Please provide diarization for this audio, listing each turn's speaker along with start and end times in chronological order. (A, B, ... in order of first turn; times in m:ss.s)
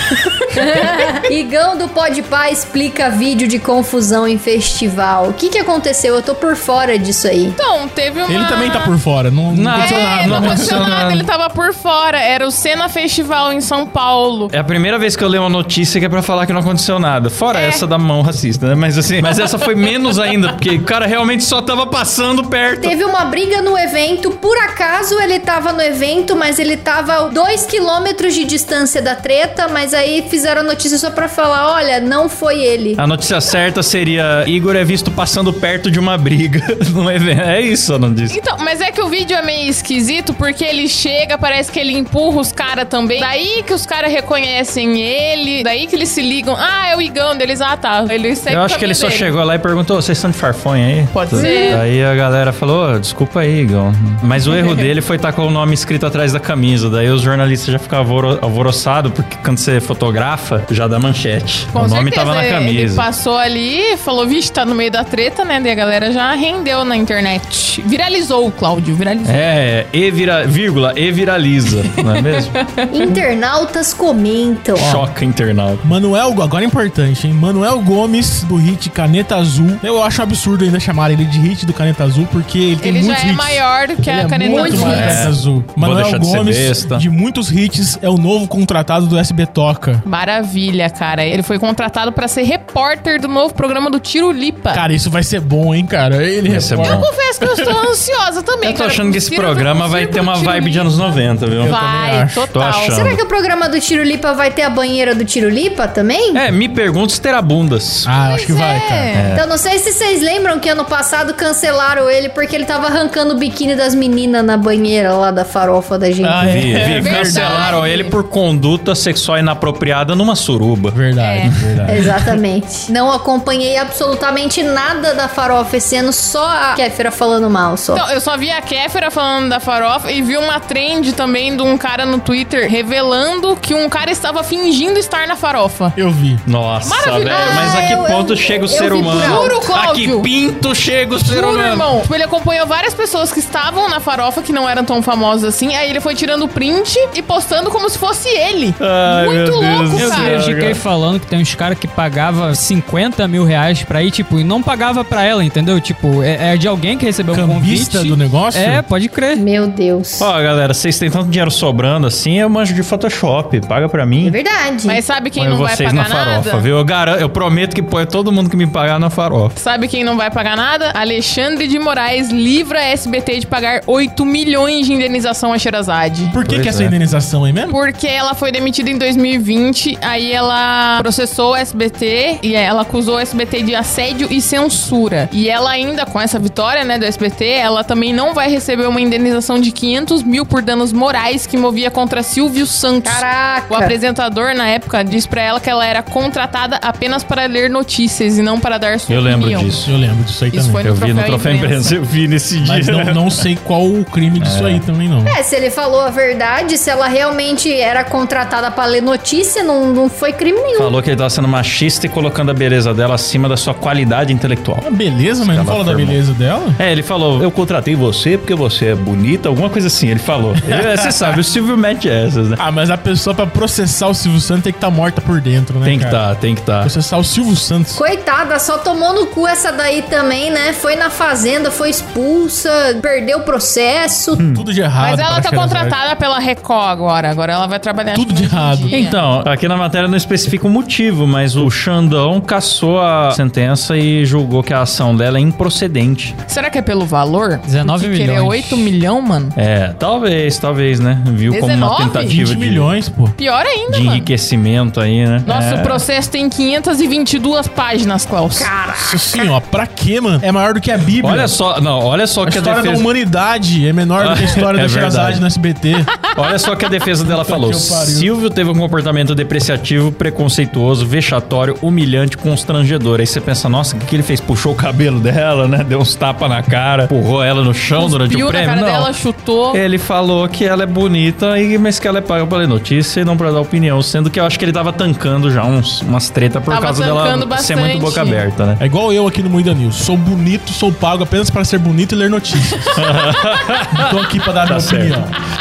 0:00.6-0:07.6 A
0:07.6-0:08.9 B
0:08.3-0:10.8 C
0:09.5-0:11.3 D
0:09.8-0:14.5 B
0:14.5-0:22.9 D
0:17.5-0:17.8 B
0:22.8-0:33.0 A
0:33.0-0:38.4 D
0:38.3-0:49.3 B
0:48.5-1:03.0 D
0:51.1-0:51.8 B
0:51.3-0:51.8 A
1:01.7-1:09.5 B
1:09.2-1:12.6 D
1:12.2-1:13.2 B
1:12.9-1:15.0 A
1:14.8-1:15.8 D
1:14.8-1:15.0 C
1:15.8-1:30.0 C
1:22.8-1:25.3 B
1:24.5-1:25.3 A
1:24.7-1:27.0 D
1:30.0-1:34.8 B
1:34.7-1:37.7 C
1:36.5-1:37.1 D
1:36.8-1:40.9 B
1:38.6-1:41.8 D
1:41.6-1:42.4 C
1:41.7-1:43.0 B
1:42.5-1:43.2 D
1:42.9-1:46.4 A
1:46.3-1:48.1 D
1:48.0-1:49.1 C
1:48.3-1:49.2 B
1:49.1-1:49.4 D
1:49.3-1:56.6 A
1:56.2-1:57.7 C
1:56.4-2:02.0 D
1:56.8-1:58.1 B
2:00.9-2:02.3 C
2:01.2-2:01.5 B
2:01.9-2:08.0 A
2:07.9-2:16.0 B
2:16.0-2:16.4 C
2:16.4-2:21.9 D
2:16.8-2:17.8 B
2:17.3-2:19.5 A
2:19.1-2:20.3 B
2:21.2-2:30.3 B
2:28.8-2:30.8 D
2:29.9-2:39.4 E
2:37.3-2:38.8 C
2:39.4-2:40.3 A
2:40.2-2:44.4 D
2:44.2-2:45.0 A
2:44.9-2:46.6 B
2:45.4-2:49.6 D
2:49.6-2:56.4 B
2:56.3-2:57.8 C
2:56.4-2:57.0 D
2:57.7-3:19.8 B
3:13.0-3:14.0 A
3:19.1-3:19.9 D
3:19.8-3:20.8 C
3:20.5-3:22.0 B
3:20.8-3:23.4 D
3:22.6-3:25.3 C
3:24.4-3:24.9 D
3:25.2-3:30.9 A
3:30.7-3:34.9 D
3:34.8-3:36.8 C
3:35.4-3:36.2 D
3:36.8-3:42.6 D
3:40.7-3:41.3 C
3:42.6-3:46.2 C
3:45.8-3:46.9 D
3:46.8-3:48.0 C
3:48.0-3:54.4 A
3:54.4-3:54.6 D
3:54.5-3:56.0 C
3:55.0-3:59.2 B
3:58.1-3:59.0 C
3:58.9-4:06.3 D
4:06.5-4:09.5 B
4:07.6-4:08.9 E
4:09.6-4:12.9 D
4:11.5-4:12.4 B
4:12.3-4:13.4 C
4:13.4-4:14.3 B
4:13.9-4:16.0 D
4:15.4-4:18.7 B
4:18.5-4:19.5 A
4:19.0-4:21.5 C
4:21.2-4:23.1 D
4:22.4-4:26.1 C
4:24.2-4:25.4 D
4:26.3-4:39.1 D
4:27.2-4:28.3 C
4:37.9-4:39.8 B
4:39.7-4:48.8 D
4:46.7-4:48.4 B
4:48.8-4:53.1 C
4:52.9-4:55.3 D
4:53.9-4:55.3 C